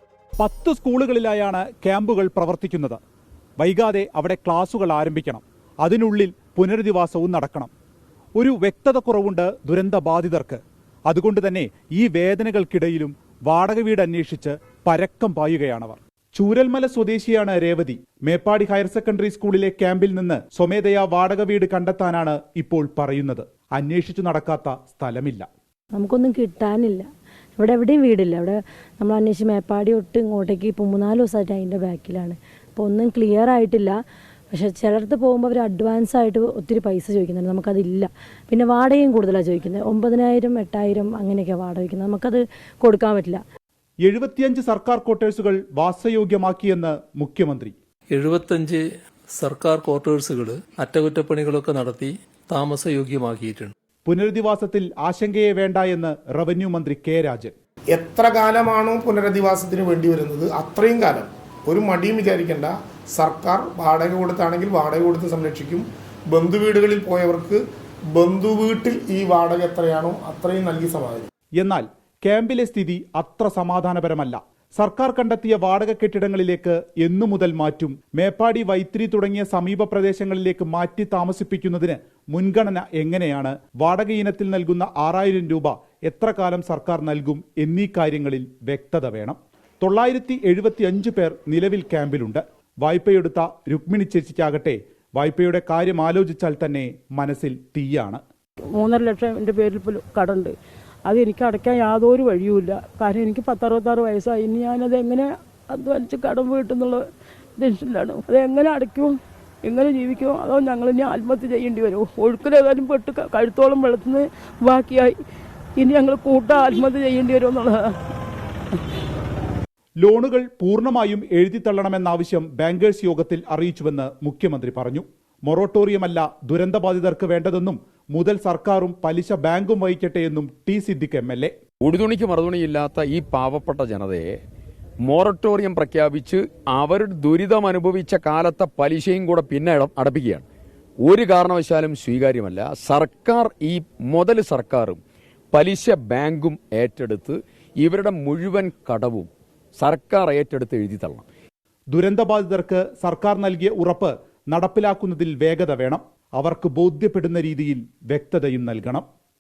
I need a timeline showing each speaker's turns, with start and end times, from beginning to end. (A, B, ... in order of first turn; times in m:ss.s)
0:00.4-0:03.0 A
0:03.6-0:07.7 A
0:08.4-0:25.5 A
0:26.0-0:27.0 B
0:27.6-0:34.0 B
0:34.5-0:43.4 B
0:44.0-0:47.8 A
0:48.1-0:53.7 C
0:54.0-0:57.6 A
0:57.9-1:07.6 D
1:08.1-1:11.3 D
1:11.6-1:38.2 A
1:38.8-1:40.5 E
1:41.0-1:47.0 E
1:47.6-1:55.2 E
1:55.8-1:58.0 E
2:00.0-2:11.5 A
2:11.8-2:14.3 F
2:15.0-2:20.4 F
2:21.0-2:25.0 F
2:25.5-2:31.2 F
2:31.9-2:39.1 A